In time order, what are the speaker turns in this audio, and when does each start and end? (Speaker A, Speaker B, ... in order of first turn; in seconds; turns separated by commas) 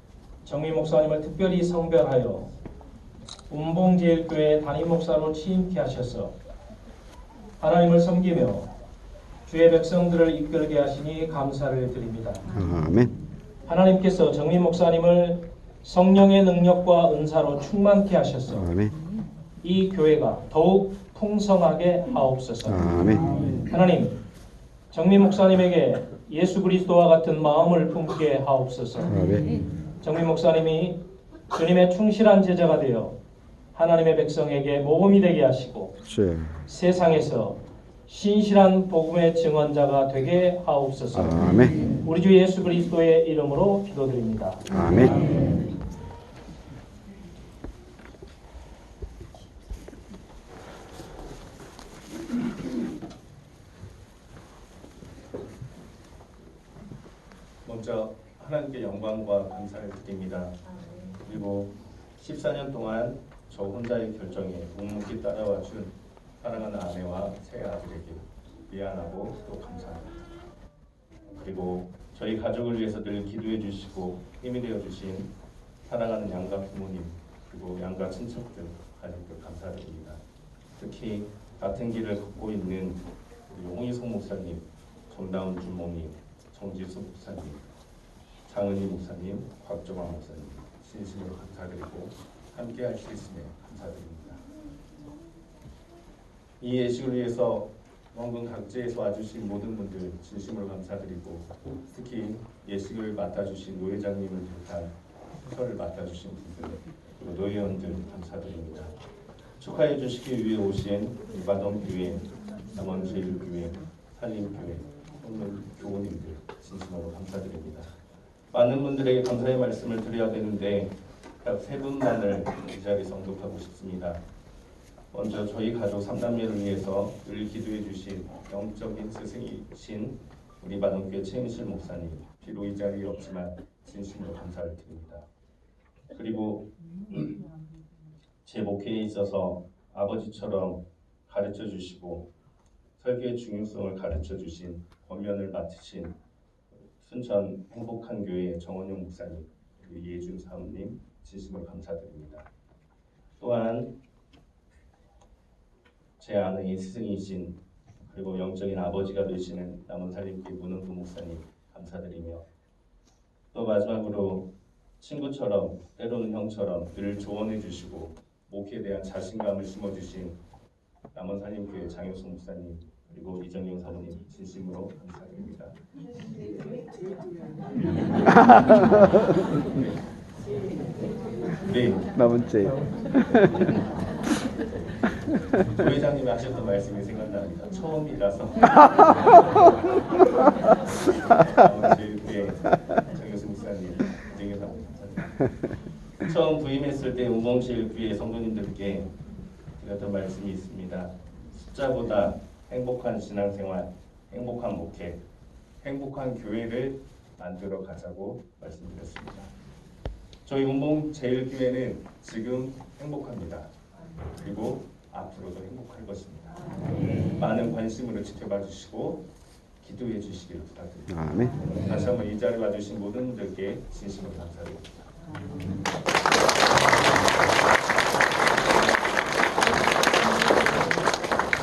Speaker A: 0.4-2.5, Speaker A: 3.5-6.4, Speaker A: 7.6-8.7, Speaker A: 9.5-12.5, Speaker B: 12.5-13.2, Speaker A: 13.7-18.7, Speaker B: 18.6-18.9, Speaker A: 19.6-24.2, Speaker B: 22.7-23.5, Speaker A: 24.9-29.5, Speaker B: 29.1-29.6, Speaker A: 30.0-33.2, Speaker A: 33.7-36.0, Speaker B: 36.1-36.5, Speaker A: 36.6-44.7, Speaker B: 41.1-41.9, Speaker B: 44.7-45.3, Speaker C: 57.6-70.2, Speaker C: 71.3-75.3, Speaker C: 75.9-80.2, Speaker C: 80.8-87.7, Speaker C: 88.5-94.4, Speaker C: 96.6-109.0, Speaker C: 109.6-117.9, Speaker C: 118.5-124.2, Speaker C: 125.1-135.3, Speaker C: 136.1-137.4, Speaker C: 138.4-142.3, Speaker C: 143.0-146.2, Speaker C: 147.0-152.5, Speaker C: 153.4-153.9, Speaker C: 156.2-162.4, Speaker C: 163.5-170.4, Speaker C: 171.1-175.8, Speaker C: 181.6-182.2, Speaker B: 182.2-183.7, Speaker C: 185.7-189.4, Speaker C: 191.3-195.5, Speaker C: 196.2-199.2, Speaker C: 199.8-205.2, Speaker C: 205.8-209.5, Speaker C: 210.4-213.7, Speaker C: 214.3-216.6, Speaker C: 217.2-219.3, Speaker C: 219.8-225.1, Speaker B: 221.1-221.6